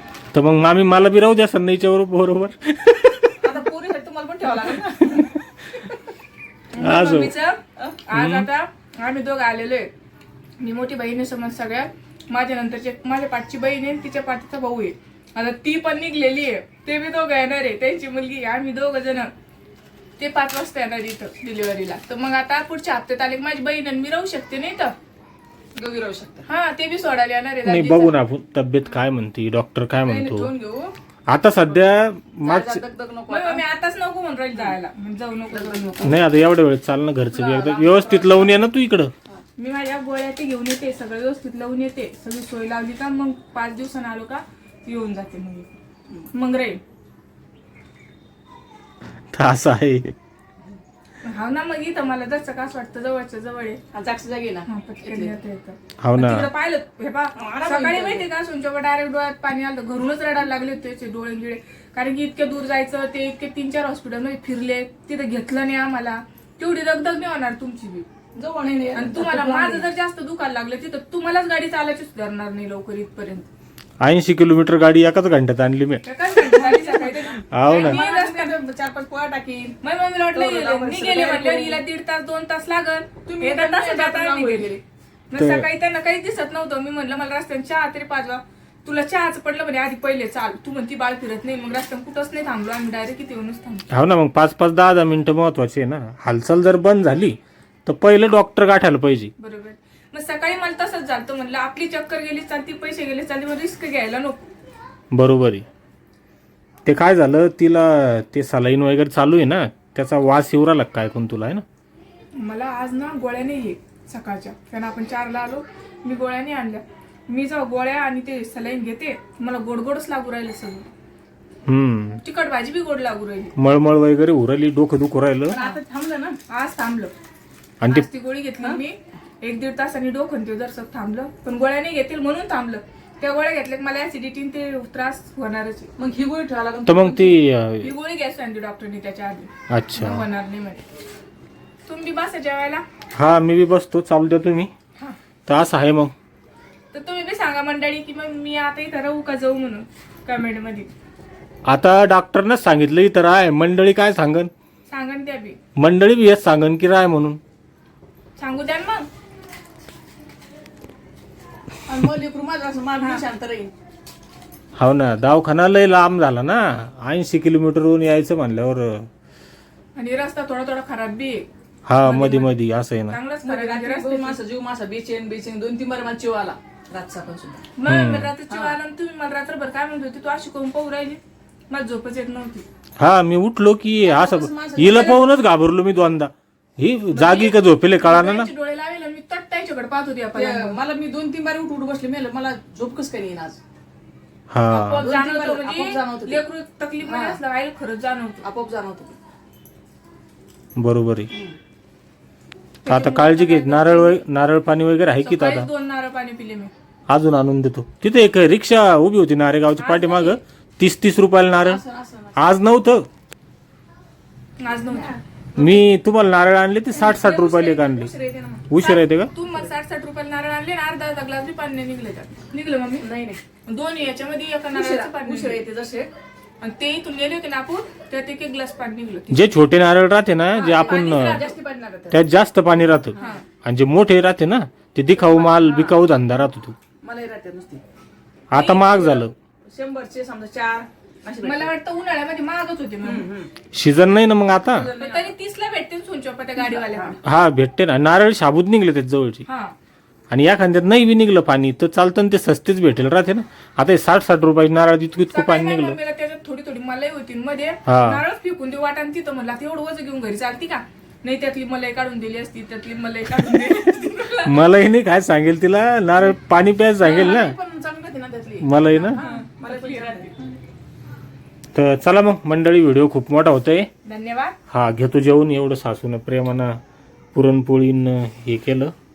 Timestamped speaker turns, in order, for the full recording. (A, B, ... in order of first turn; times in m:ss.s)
0:00.3-0:03.4 A
0:03.4-0:05.9 B
0:06.7-0:09.9 C
0:06.8-0:07.3 A
0:08.1-0:08.5 A
0:10.6-0:19.3 C
0:20.2-0:24.9 C
0:25.7-0:26.5 B
0:26.5-0:28.2 C
0:27.6-0:30.5 A
0:30.0-0:30.9 B
0:31.3-0:32.8 A
0:32.4-0:33.6 B
0:33.3-0:36.1 C
0:35.5-0:36.2 B
0:36.0-0:39.1 A
0:37.3-0:38.6 B
0:39.6-0:45.7 C
0:46.3-0:46.8 C
0:49.3-0:50.1 A
0:51.2-0:53.8 C
0:53.9-0:55.3 B
0:54.6-1:08.0 C
0:56.0-0:56.5 A
0:57.4-0:58.3 B
1:08.3-1:09.9 B
1:08.9-1:13.5 C
1:14.0-1:16.0 A
1:16.0-1:18.6 C
1:16.4-1:19.8 B
1:17.5-1:18.0 A
1:19.8-1:24.7 C
1:20.3-1:21.8 B
1:23.2-1:24.8 B
1:25.3-1:33.9 C
1:25.4-1:25.6 A
1:33.9-1:39.3 A
1:39.4-1:44.5 C
1:45.1-1:45.6 A
1:46.8-1:51.6 A
1:52.4-2:00.9 C
2:01.7-2:02.2 A
2:02.2-2:03.5 C
2:03.6-2:05.6 A
2:05.5-2:06.4 B
2:05.5-2:05.8 C
2:06.4-2:07.1 C
2:07.8-2:08.1 A
2:07.9-2:15.9 C
2:16.0-2:17.4 B
2:16.8-2:17.9 A
2:17.8-2:20.8 C
2:19.7-2:20.2 A
2:21.9-2:22.8 C
2:23.1-2:24.7 A
2:25.5-2:26.1 A
2:26.9-2:30.9 C
2:31.6-2:34.5 A
2:34.9-2:35.6 C
2:35.8-2:37.4 A
2:38.4-2:39.1 C
2:41.8-2:43.7 B
2:44.8-2:49.0 A
2:50.0-2:51.4 C
2:51.9-2:53.2 A
2:52.0-2:52.6 C
2:53.1-2:54.4 C
2:53.4-2:57.7 B
2:57.7-3:02.6 C
2:57.8-2:58.3 A
2:58.5-2:58.8 B
3:03.0-3:08.5 A
3:04.0-3:05.2 B
3:07.1-3:10.8 C
3:10.3-3:13.6 B
3:14.5-3:15.1 A
3:14.7-3:16.4 B
3:14.8-3:18.4 C
3:17.0-3:17.4 B
3:18.4-3:19.2 B
3:20.8-3:21.3 A
3:22.8-3:24.2 C
3:22.9-3:25.7 A
3:25.2-3:26.7 C
3:27.1-3:31.8 A
3:29.8-3:30.4 C
3:31.6-3:32.4 B
3:32.4-3:33.0 A
3:34.6-3:35.2 C
3:34.8-3:35.8 B
3:35.6-3:38.1 A
3:37.0-3:38.7 B
3:38.7-3:39.3 A
3:38.7-3:43.1 C
3:43.0-3:43.4 B
3:43.7-3:45.6 C
3:44.7-3:46.1 B
3:46.6-3:49.4 C
3:49.3-3:51.4 A
3:50.5-3:51.5 C
3:50.6-3:52.2 B
3:52.1-3:56.8 A
3:53.2-3:53.4 B
3:53.2-3:53.4 C
3:55.2-3:56.0 B
3:57.0-3:57.8 B
3:58.5-3:59.3 A
3:58.5-3:59.3 C
3:59.7-4:01.7 B
4:01.4-4:03.3 C
4:03.0-4:03.5 B
4:03.7-4:04.9 A
4:04.7-4:05.3 B
4:05.0-4:07.2 C
4:06.6-4:07.2 B
4:07.2-4:09.4 A
4:09.4-4:09.7 C
4:10.3-4:16.0 A
4:15.3-4:24.6 C
4:17.8-4:18.2 A
4:24.4-4:27.6 A
4:27.0-4:30.5 B
4:28.6-4:29.2 A
4:29.0-4:30.3 C
4:31.7-4:33.9 A
4:34.0-4:34.6 C
4:34.7-4:36.8 A
4:37.3-4:38.9 A